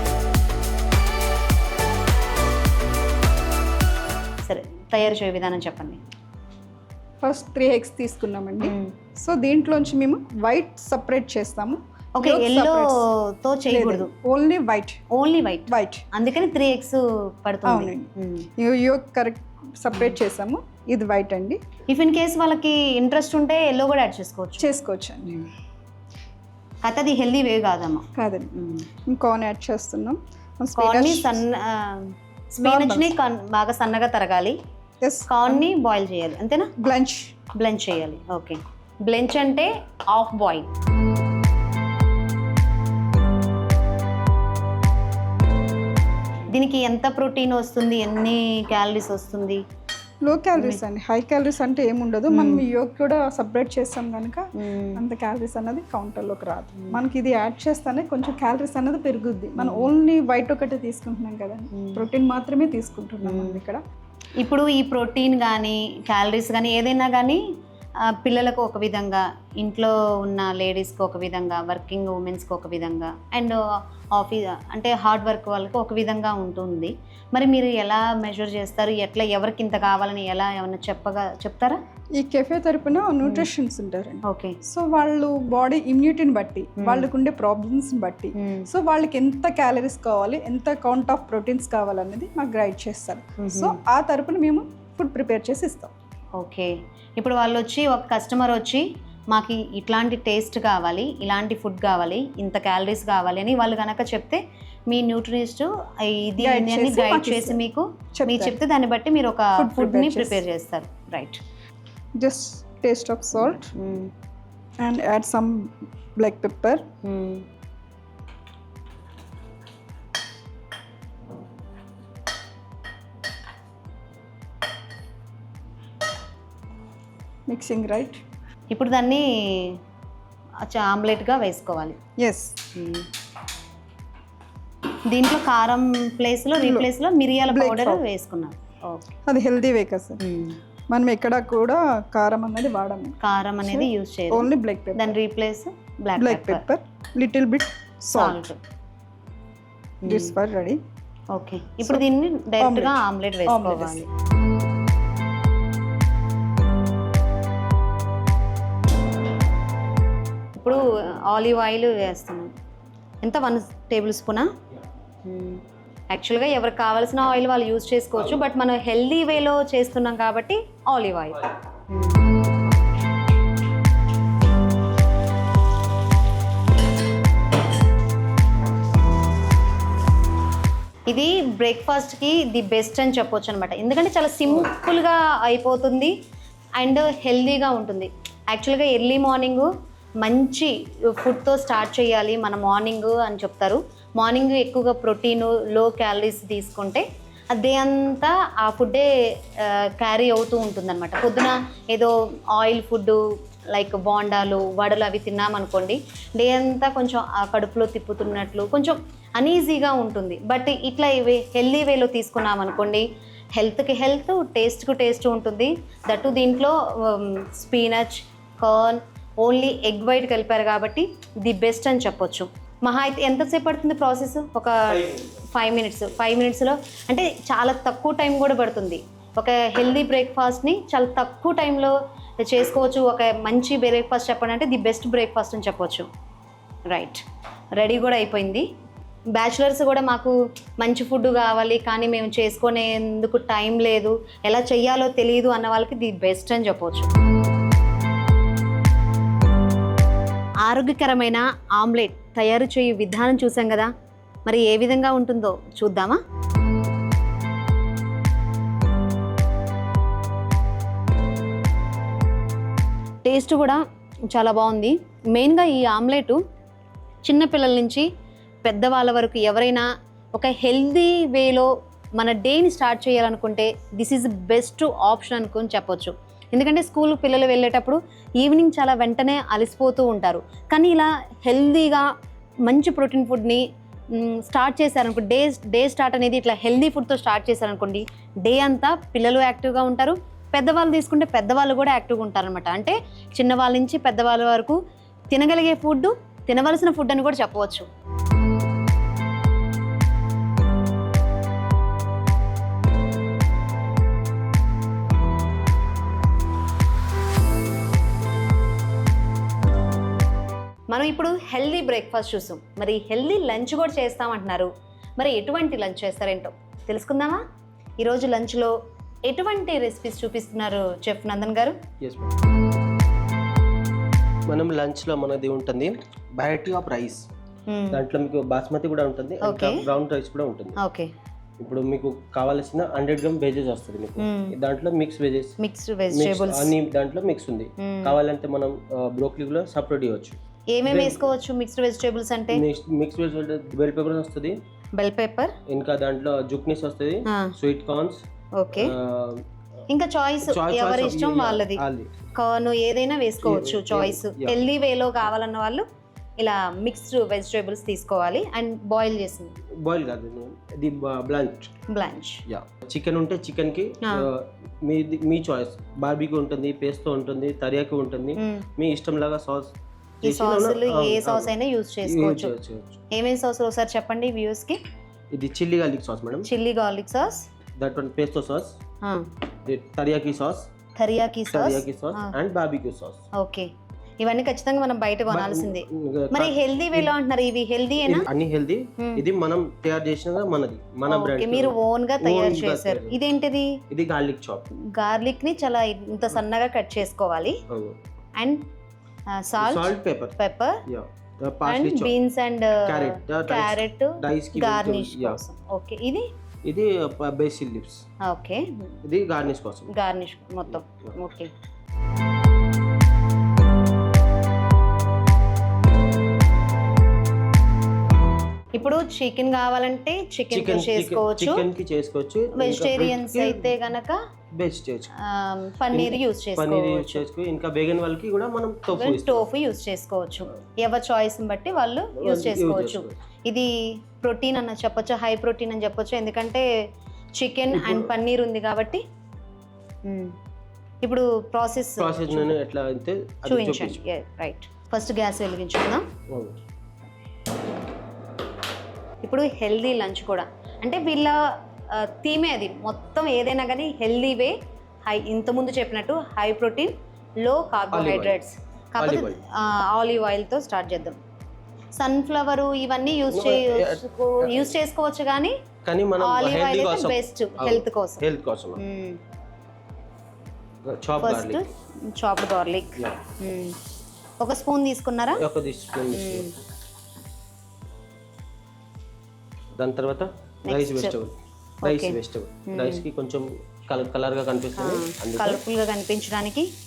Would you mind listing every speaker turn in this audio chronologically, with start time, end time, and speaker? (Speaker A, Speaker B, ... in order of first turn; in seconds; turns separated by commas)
Speaker A: 4.5-6.0, Speaker B: 7.2-13.0, Speaker A: 8.6-8.9, Speaker A: 12.2-14.1, Speaker B: 13.7-15.0, Speaker A: 15.1-18.5, Speaker B: 15.7-16.0, Speaker B: 17.6-21.6, Speaker A: 21.9-24.7, Speaker B: 24.6-25.4, Speaker A: 26.8-28.9, Speaker B: 28.1-28.5, Speaker B: 29.1-31.4, Speaker A: 30.8-34.5, Speaker B: 32.5-33.1, Speaker B: 35.0-35.6, Speaker A: 35.3-36.7, Speaker B: 36.8-37.3, Speaker A: 37.6-40.7, Speaker A: 46.5-49.6, Speaker B: 50.2-63.8, Speaker A: 50.5-50.8, Speaker A: 52.3-52.6, Speaker A: 54.6-55.0, Speaker A: 59.6-59.9, Speaker A: 61.7-62.0, Speaker A: 63.2-63.6, Speaker A: 64.4-67.4, Speaker A: 68.0-73.6, Speaker A: 74.2-81.8, Speaker B: 82.2-95.9, Speaker A: 84.3-84.5, Speaker A: 86.8-87.1, Speaker A: 88.4-88.7, Speaker A: 93.4-93.8, Speaker A: 96.4-111.4, Speaker B: 106.4-107.6, Speaker B: 108.1-108.6, Speaker B: 109.6-110.4, Speaker B: 112.2-113.7, Speaker A: 113.7-114.1, Speaker B: 114.8-116.8, Speaker A: 117.0-117.4, Speaker B: 127.5-128.2, Speaker A: 128.7-129.8, Speaker A: 130.6-132.0, Speaker B: 132.2-132.6, Speaker A: 132.7-133.1, Speaker A: 135.1-139.2, Speaker B: 136.6-136.9, Speaker B: 137.5-138.0, Speaker B: 139.2-140.2, Speaker A: 140.2-140.6, Speaker B: 140.9-145.1, Speaker A: 143.2-146.6, Speaker B: 146.2-148.5, Speaker A: 148.1-148.6, Speaker A: 150.0-150.3, Speaker B: 150.0-150.8, Speaker A: 151.3-154.1, Speaker B: 152.6-154.1, Speaker A: 160.6-162.5, Speaker A: 163.2-164.5, Speaker A: 165.2-172.2, Speaker A: 181.1-186.1, Speaker A: 186.8-189.7, Speaker A: 190.2-203.2, Speaker A: 203.7-213.0, Speaker A: 213.6-236.1, Speaker A: 236.9-237.2, Speaker A: 237.8-238.7, Speaker A: 239.3-247.1, Speaker A: 250.7-253.9, Speaker A: 254.5-256.2, Speaker A: 263.2-266.4, Speaker A: 267.3-268.1, Speaker A: 268.6-282.1, Speaker A: 282.7-283.6, Speaker A: 284.2-294.8, Speaker A: 295.3-297.9, Speaker A: 310.9-317.4, Speaker A: 318.0-318.7, Speaker A: 319.3-321.8, Speaker C: 322.0-322.3, Speaker C: 324.5-327.2, Speaker A: 327.7-328.0, Speaker C: 327.9-330.8, Speaker A: 329.4-329.8, Speaker A: 330.8-331.1, Speaker C: 331.6-335.5, Speaker A: 334.2-334.5, Speaker A: 335.6-336.7, Speaker C: 336.1-341.3, Speaker A: 337.8-338.1, Speaker A: 340.7-342.6, Speaker C: 342.5-344.6, Speaker A: 345.0-345.5, Speaker C: 345.7-348.2, Speaker A: 347.3-347.5, Speaker A: 348.6-348.9, Speaker C: 348.7-349.4, Speaker A: 349.9-351.8, Speaker C: 350.4-352.1, Speaker A: 352.3-355.8, Speaker C: 353.4-354.6, Speaker A: 356.4-359.5, Speaker C: 359.8-361.7, Speaker A: 361.9-362.4, Speaker C: 362.5-371.5, Speaker A: 368.4-368.6, Speaker A: 370.2-372.5, Speaker C: 372.0-373.0, Speaker A: 373.1-374.8, Speaker C: 375.3-376.5, Speaker A: 376.4-377.4, Speaker C: 377.8-378.7, Speaker C: 379.7-380.7, Speaker A: 381.0-382.3, Speaker C: 381.5-383.2, Speaker A: 383.4-383.7, Speaker A: 384.2-388.3, Speaker C: 385.3-387.1, Speaker C: 388.1-393.2, Speaker A: 391.1-393.8, Speaker C: 393.9-394.6, Speaker A: 394.9-397.6, Speaker C: 397.7-398.0, Speaker A: 398.4-398.6, Speaker A: 399.3-400.8, Speaker C: 399.6-400.3, Speaker C: 400.9-402.1, Speaker A: 401.6-406.3, Speaker C: 402.9-405.4, Speaker C: 406.6-408.0, Speaker A: 408.2-408.9, Speaker C: 409.0-409.9, Speaker A: 409.9-411.5, Speaker A: 418.8-421.6, Speaker C: 420.5-423.7, Speaker A: 422.6-424.2, Speaker C: 424.5-425.1, Speaker A: 425.2-427.2, Speaker C: 425.9-429.4, Speaker A: 428.9-433.7, Speaker C: 432.2-433.1, Speaker A: 434.2-436.6, Speaker A: 437.4-439.0, Speaker C: 437.7-438.1, Speaker A: 440.1-440.3, Speaker A: 441.0-442.5, Speaker C: 442.0-444.0, Speaker A: 443.5-446.1, Speaker C: 446.3-446.6, Speaker A: 449.2-451.4, Speaker A: 451.9-454.5, Speaker A: 455.1-461.2, Speaker C: 457.9-458.4, Speaker C: 459.0-459.4, Speaker A: 461.9-465.6, Speaker C: 463.3-464.7, Speaker C: 465.8-468.8, Speaker A: 466.2-468.2, Speaker A: 468.8-469.2, Speaker C: 470.9-471.6, Speaker A: 471.2-473.8, Speaker A: 474.4-475.4, Speaker C: 475.4-476.5, Speaker A: 476.1-476.5, Speaker C: 479.8-485.6, Speaker A: 480.7-481.1, Speaker A: 481.8-482.2, Speaker A: 482.7-483.0, Speaker A: 484.8-486.7